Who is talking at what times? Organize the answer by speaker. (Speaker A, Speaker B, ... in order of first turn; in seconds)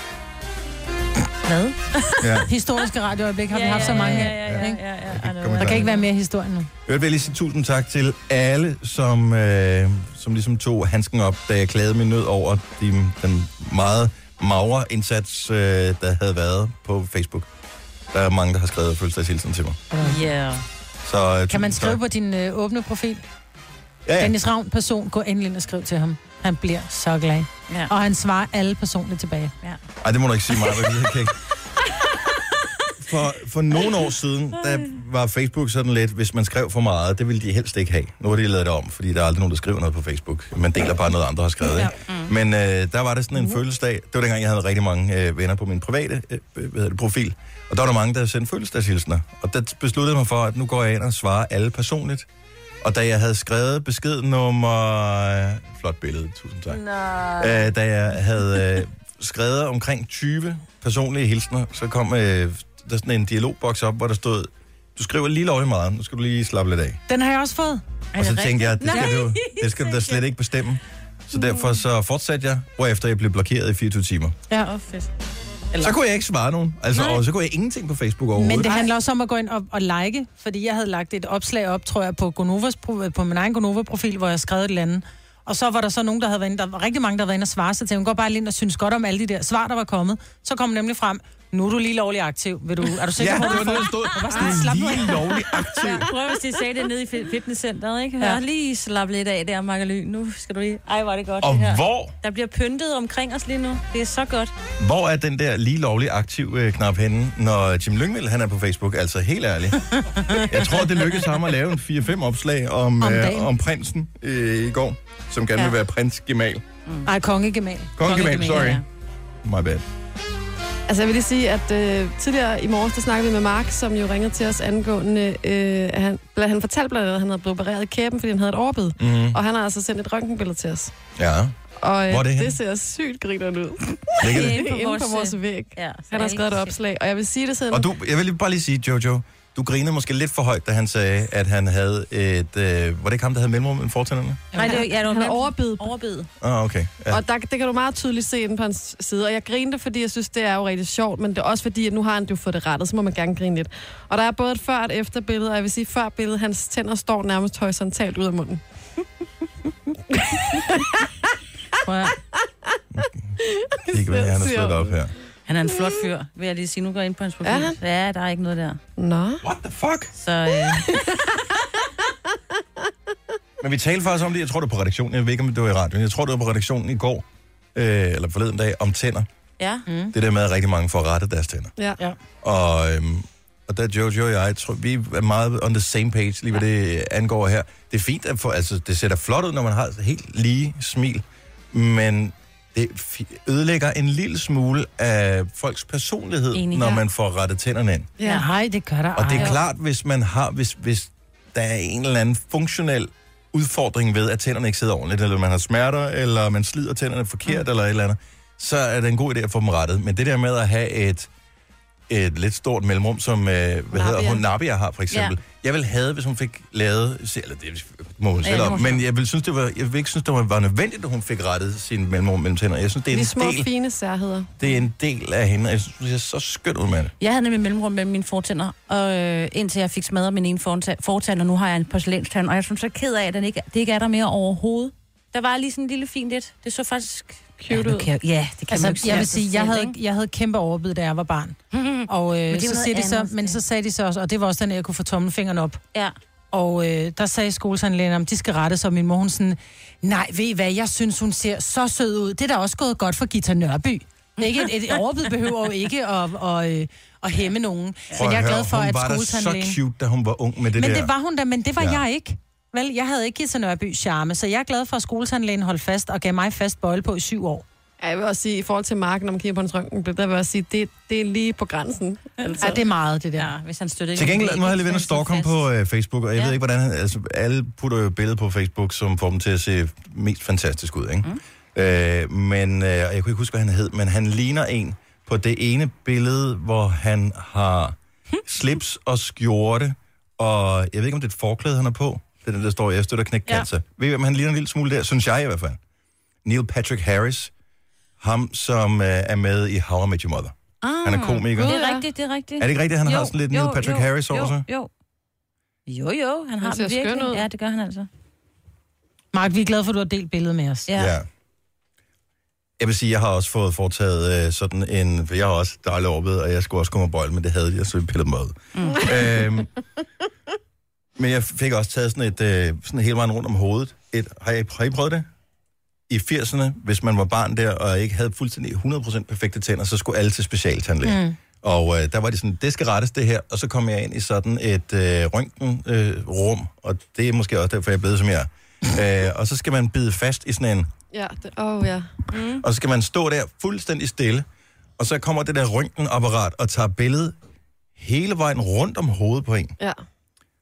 Speaker A: 1.5-2.3, 3.5-6.1, 20.0-20.6, 42.0-42.3, 68.1-70.2, 74.5-75.1, 76.9-77.2, 95.8-104.5, 110.2-110.5, 118.0-118.8, 134.2-136.7, 144.5-146.3, 161.8-162.1, 165.5-168.8, 170.2-170.9, 179.6-179.8, 196.5-197.0, 218.4-219.0, 227.2-239.9, 241.7-243.6, 273.4-275.6, 300.8-304.9, 305.9-308.1, 310.9-311.1, 318.7-319.1, 342.3-342.6
Speaker B: 2.2-2.5, 3.8-5.9, 6.8-17.5, 18.1-19.8, 21.0-22.0, 24.1-24.3, 30.0-31.3, 33.0-52.3, 52.8-56.8, 57.4-67.0, 68.2-74.4, 75.8-78.7, 93.2-96.1, 101.4-102.1, 104.8-116.6, 118.0-118.8, 119.4-119.8, 129.0-129.4, 131.2-131.5, 132.1-132.6, 134.2-134.6, 137.7-144.5, 146.4-147.2, 162.9-163.3, 163.9-165.1, 169.4-170.1, 173.6-177.2, 177.7-179.3, 180.1-181.7, 182.4-198.1, 199.2-211.3, 212.1-223.7, 224.6-227.1, 258.1-261.1, 274.1-295.8, 296.4-297.5, 298.2-301.8, 302.6-304.6, 310.9-311.3, 312.8-319.7, 321.2-325.3, 326.1-340.9, 342.6-344.4, 345.0-347.4, 348.0-349.7
Speaker C: 2.5-4.8, 5.6-6.7, 19.9-20.2, 21.5-23.2, 24.2-29.5, 57.0-57.3, 67.1-67.8, 78.3-95.6, 113.0-113.5, 117.0-117.9, 144.5-144.8, 179.9-180.1, 198.3-199.6, 238.7-245.8, 246.5-259.8, 260.7-267.6, 272.6-273.5, 309.3-310.9, 331.0-331.4
Speaker D: 120.9-130.9, 131.8-137.9, 144.6-145.9, 147.1-158.6, 160.1-161.0, 163.6-164.9, 167.4-167.8, 169.0-169.4, 170.6-171.4, 198.2-198.4, 213.9-214.4, 223.1-224.5, 237.6-238.1, 268.0-272.8, 301.5-302.1, 306.6-307.4, 341.1-342.1